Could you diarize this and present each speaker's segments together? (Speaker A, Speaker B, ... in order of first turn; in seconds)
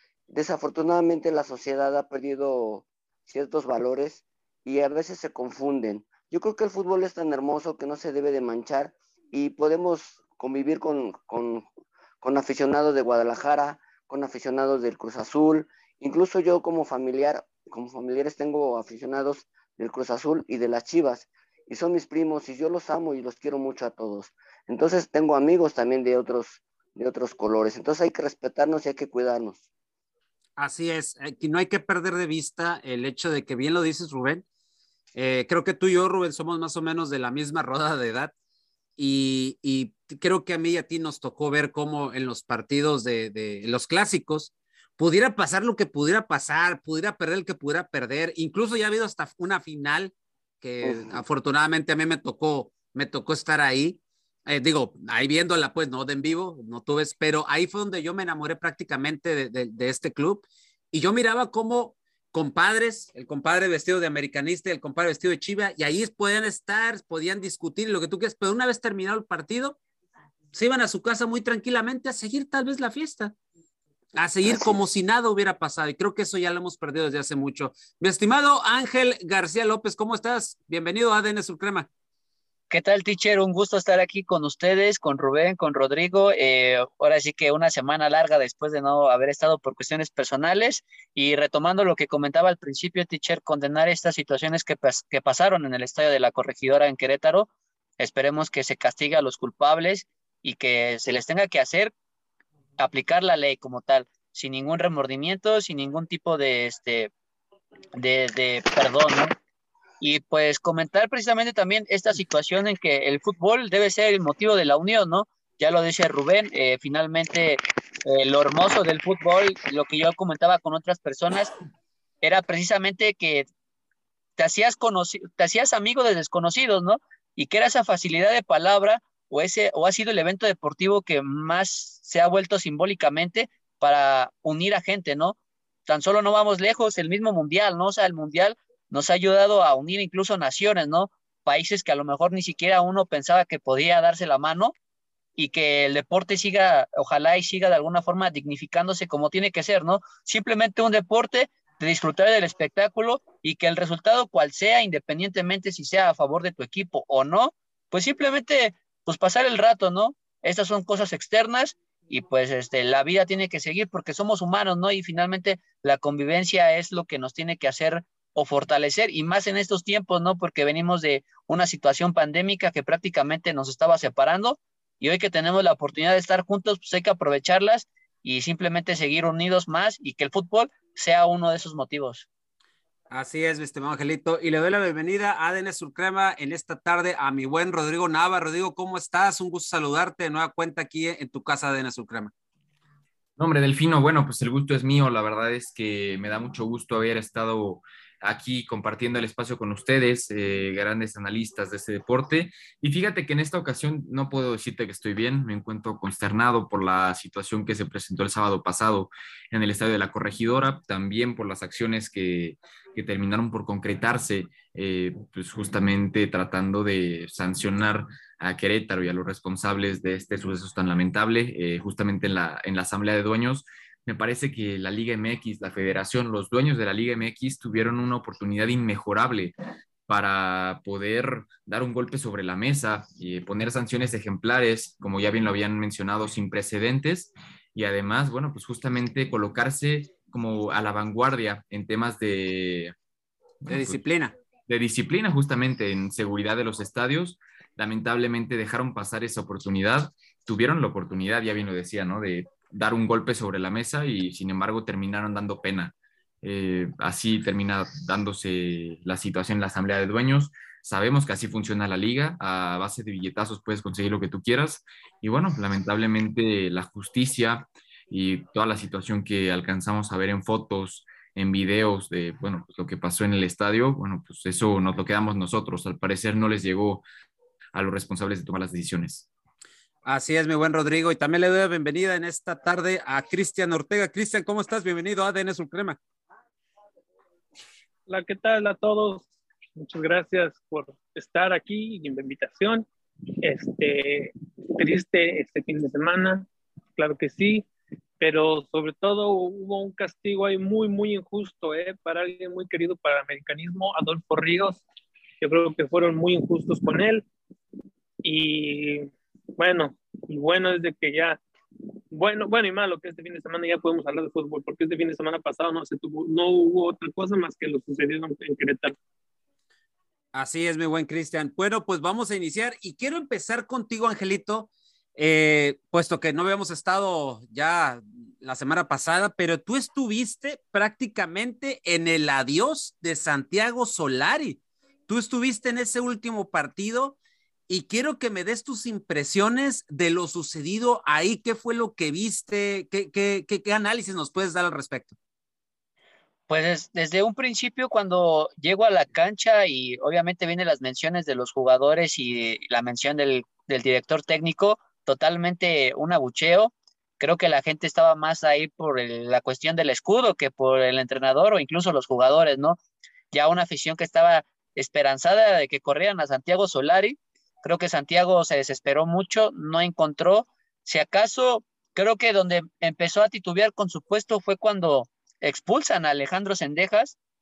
Speaker A: 0.3-11.7, 12.2-29.6, 50.8-51.2, 74.5-74.8
Speaker B: 30.6-34.4, 35.1-38.3, 39.0-69.8, 70.5-73.3, 74.2-81.9, 183.1-192.3, 243.7-244.3, 280.1-286.0, 320.3-337.2, 337.7-345.1
Speaker C: 82.7-101.9, 102.8-107.1, 107.9-109.3, 110.0-121.5, 122.2-123.5, 124.4-144.7, 145.3-182.3, 346.5-362.8, 363.3-377.2
Speaker D: 193.4-229.5, 230.1-242.9, 243.6-244.0, 244.7-277.0, 277.7-279.3
Speaker E: 288.1-292.9, 293.4-297.7, 298.2-304.8, 305.4-307.3, 308.2-311.4, 312.1-318.9